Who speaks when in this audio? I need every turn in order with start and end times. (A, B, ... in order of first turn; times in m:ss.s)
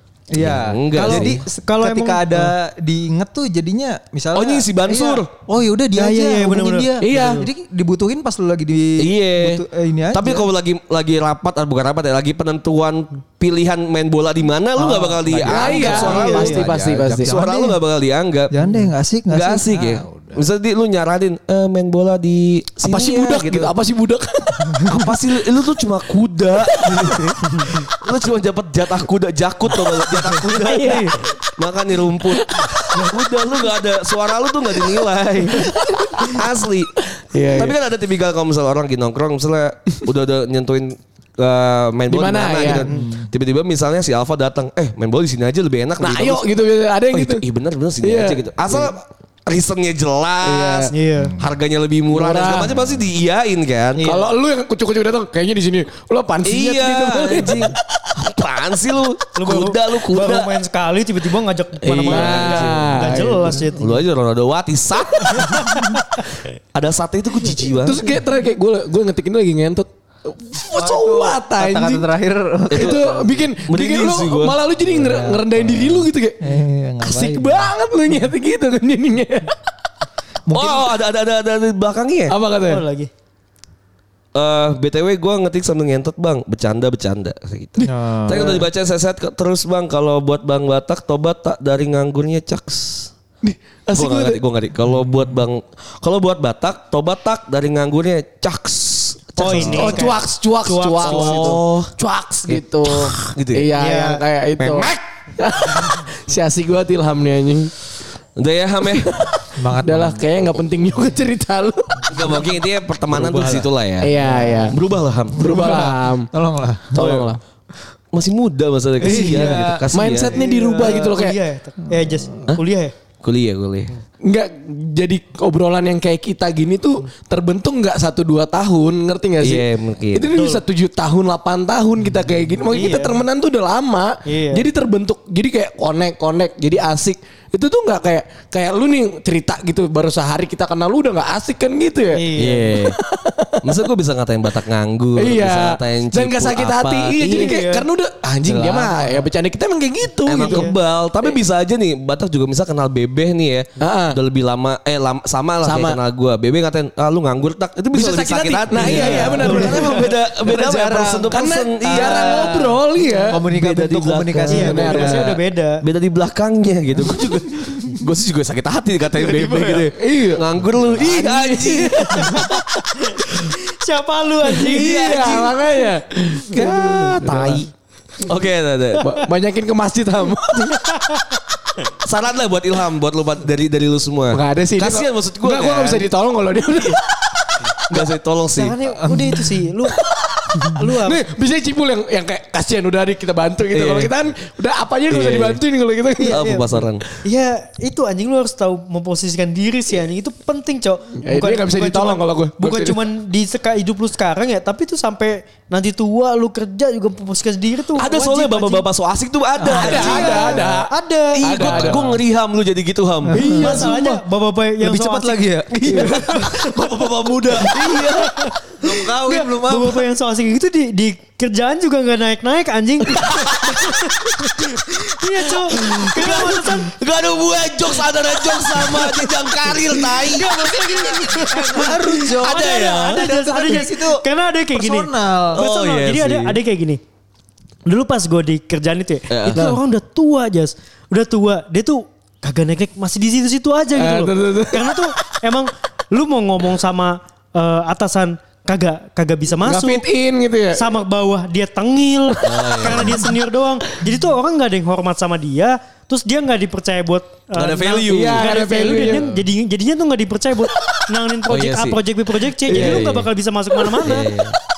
0:00.3-0:10.5 A
0:00.4-0:01.4 B
0:01.0-0:02.5 C
0:04.3-0:05.3 B
0:05.9-0:07.5 C
0:07.0-0:07.5 D
0:09.0-0:23.7 B
0:14.8-0:17.8 A
0:15.4-0:17.3 D
0:15.8-0:16.6 C
0:18.5-0:20.4 A
0:22.8-0:24.9 D
0:24.9-0:37.0 B
0:26.7-0:27.2 D
0:30.5-0:31.3 D
0:32.3-0:32.9 D
0:35.6-0:36.4 D
0:37.2-0:37.8 D
0:37.5-0:46.4 B
0:42.1-0:42.9 D
0:42.9-0:43.2 A
0:46.0-0:47.4 D
0:47.1-0:54.0 B
0:48.0-0:48.9 D
0:50.4-0:50.9 D
0:50.9-0:51.3 C
0:52.1-0:52.7 D
0:54.0-0:54.3 C
0:54.0-0:57.8 D
0:56.4-1:00.5 B
0:59.4-1:04.0 C
1:01.8-1:03.6 D
1:01.9-1:02.9 B
1:03.8-1:05.6 B
1:05.4-1:06.0 C
1:06.7-1:08.0 B
1:07.8-1:12.0 D
1:10.7-1:13.4 A
1:12.7-1:13.1 B
1:12.7-1:16.4 D
1:13.7-1:14.6 B
1:14.8-1:17.7 A
1:17.0-1:19.5 D
1:20.5-1:20.9 A
1:20.5-1:22.3 B
1:22.3-1:22.8 D
1:22.6-1:23.1 C
1:24.3-1:33.1 B
1:27.8-1:28.6 A
1:33.4-1:34.4 D
1:33.9-1:40.1 B
1:39.4-1:41.6 C
1:39.6-1:47.7 D
1:41.0-1:41.9 B
1:42.5-1:43.7 B
1:43.8-1:44.2 C
1:44.6-1:44.9 B
1:48.4-1:49.2 B
1:48.9-1:52.0 D
1:49.6-1:50.3 A
1:52.1-1:54.1 B
1:53.1-1:53.6 A
1:54.0-1:54.8 D
1:54.2-1:54.6 A
1:54.7-1:55.7 B
1:55.3-1:57.0 A
1:55.3-1:56.3 D
1:56.9-1:57.4 D
1:56.9-1:57.3 B
1:58.1-2:00.4 B
1:59.0-2:02.9 C
1:59.0-1:59.8 A
1:59.9-2:01.4 D
2:03.2-2:03.9 B
2:04.2-2:23.7 D
2:09.4-2:10.4 B
2:10.4-2:10.6 C
2:12.7-2:13.2 C
2:14.2-2:14.7 C
2:22.1-2:22.7 C
2:22.4-2:23.0 B
2:23.6-2:27.6 B
2:25.2-2:30.7 D
2:27.2-2:27.8 C
2:28.4-2:29.2 A
2:30.2-2:42.6 B
2:30.4-2:30.7 C
2:33.8-2:34.2 D
2:35.6-2:36.0 D
2:37.9-2:43.4 D
2:38.7-2:45.3 A
2:38.9-2:39.8 C
2:43.4-2:45.1 B
2:44.5-2:45.4 D
2:44.5-2:45.8 C
2:45.8-2:52.6 B
2:49.6-2:50.4 D
2:51.0-2:52.6 D
2:52.0-2:55.5 C
2:54.5-2:57.6 D
2:54.7-2:55.6 B
2:56.5-2:59.1 B
2:59.0-3:00.8 D
3:00.6-3:01.4 C
3:02.0-3:06.1 B
3:04.3-3:07.6 D
3:07.9-3:08.8 B
3:08.5-3:10.0 C
3:09.9-3:16.4 D
3:10.6-3:11.2 C
3:13.7-3:14.1 B
3:15.1-3:15.6 B
3:16.2-3:16.7 C
3:16.3-3:17.0 B
3:17.2-3:28.8 C
3:21.2-3:23.0 D
3:27.9-3:30.7 B
3:29.6-3:31.7 C
3:29.6-3:30.9 D
3:29.8-3:30.4 A
3:31.3-3:33.9 B
3:31.4-3:32.2 D
3:33.3-3:34.2 A
3:33.4-3:36.5 C
3:34.8-3:36.7 A
3:36.0-3:39.9 B
3:37.6-3:38.1 A
3:37.8-3:38.5 C
3:39.2-3:46.9 C
3:43.1-3:44.1 B
3:45.5-3:51.1 B
3:48.9-3:49.2 C
3:49.9-3:57.0 C
3:51.3-3:55.6 A
3:52.1-3:53.3 B
3:55.5-3:56.6 B
3:57.8-4:10.0 C
3:59.3-3:59.6 B
4:03.9-4:05.0 D
4:09.6-4:10.8 D
4:10.7-4:24.3 C
4:12.4-4:13.2 B
4:17.5-4:18.5 B
4:18.1-4:19.3 D
4:21.5-4:22.0 B
4:22.7-4:23.2 B
4:22.7-4:23.1 D
4:24.0-4:24.6 B